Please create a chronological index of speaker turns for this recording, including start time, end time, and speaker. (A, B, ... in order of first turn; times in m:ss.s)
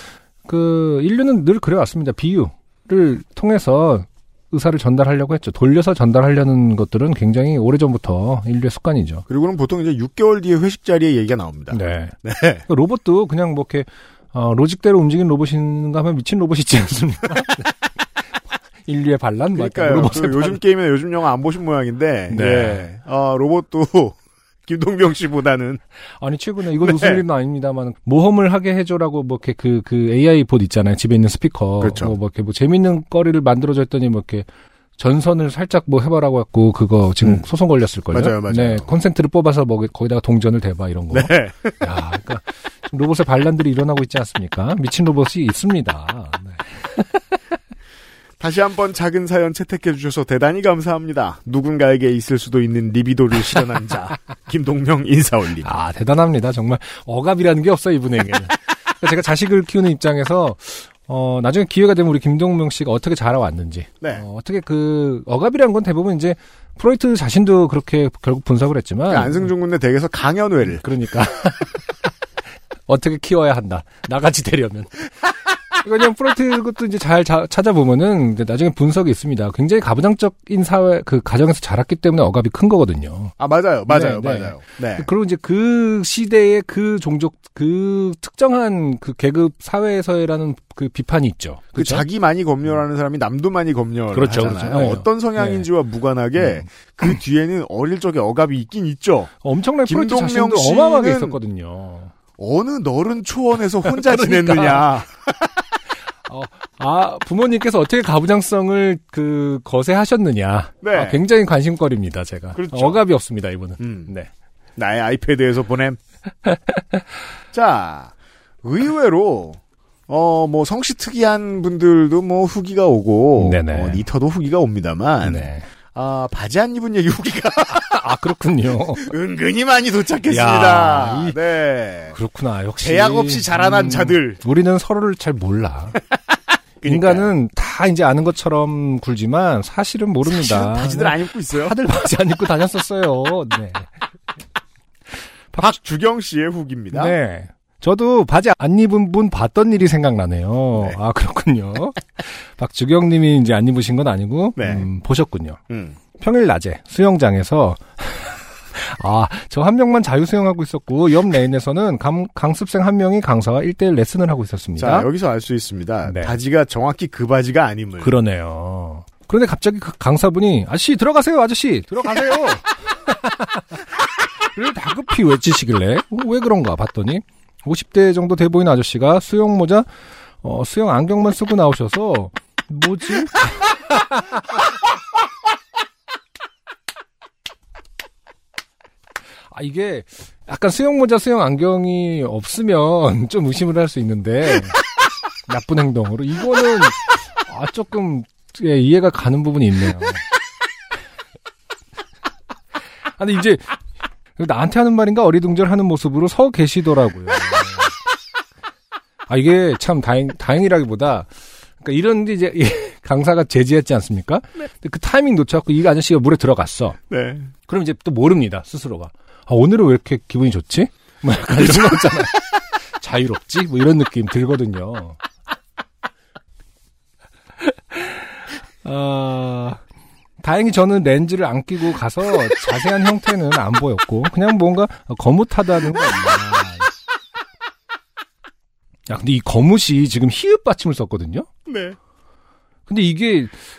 0:00.5-0:09.2 A
0:09.3-0:12.6 B
0:11.7-0:12.2 A
0:12.7-0:17.7 A
0:18.8-0:20.6 A
0:19.6-0:24.2 B
0:22.3-0:22.9 A
0:24.7-0:25.8 B
0:26.2-0:34.5 A
0:26.8-0:27.2 B
0:31.8-0:32.2 B
0:35.0-0:47.1 A
0:38.1-0:38.9 B
0:41.1-0:41.7 B
0:48.4-0:55.7 B
0:55.6-1:09.5 A
1:09.1-1:10.8 B
1:10.7-1:11.8 A
1:12.9-1:15.1 A
1:15.8-1:23.3 A
1:23.4-1:25.1 B
1:23.9-1:32.0 A
1:31.8-1:39.3 B
1:34.1-1:35.7 A
1:36.4-1:37.1 A
1:39.4-1:42.1 A
1:39.9-1:41.4 B
1:42.4-1:45.3 B
1:43.8-1:44.9 A
1:46.3-1:54.3 A
1:50.8-1:51.2 B
1:52.6-1:53.0 B
1:53.8-1:54.1 B
1:54.8-1:56.0 B
1:57.5-2:08.0 B
2:03.4-2:04.0 A
2:05.2-2:05.7 A
2:07.7-2:09.1 A
2:09.0-2:12.2 B
2:10.3-2:11.4 A
2:12.1-2:16.0 A
2:12.8-2:14.4 B
2:16.8-2:17.3 B
2:16.9-2:23.9 A
2:20.3-2:21.8 B
2:25.6-2:27.2 B
2:26.9-2:35.6 A
2:34.6-2:34.9 B
2:35.7-2:36.0 B
2:36.2-2:45.1 A
2:44.8-2:48.1 B
2:46.0-2:46.4 A
2:48.0-2:53.6 A
2:54.6-2:59.9 A
3:00.4-3:04.4 A
3:09.5-3:14.8 A
3:15.5-3:20.2 A
3:23.2-3:23.8 A
3:24.4-3:27.9 A
3:29.3-3:31.3 A
3:31.8-3:37.0 A
3:37.1-3:37.5 B
3:37.7-3:45.2 A
3:48.8-3:49.8 A
3:50.4-3:56.9 A
3:59.1-4:01.5 A
4:01.7-4:02.0 B
4:02.9-4:03.6 A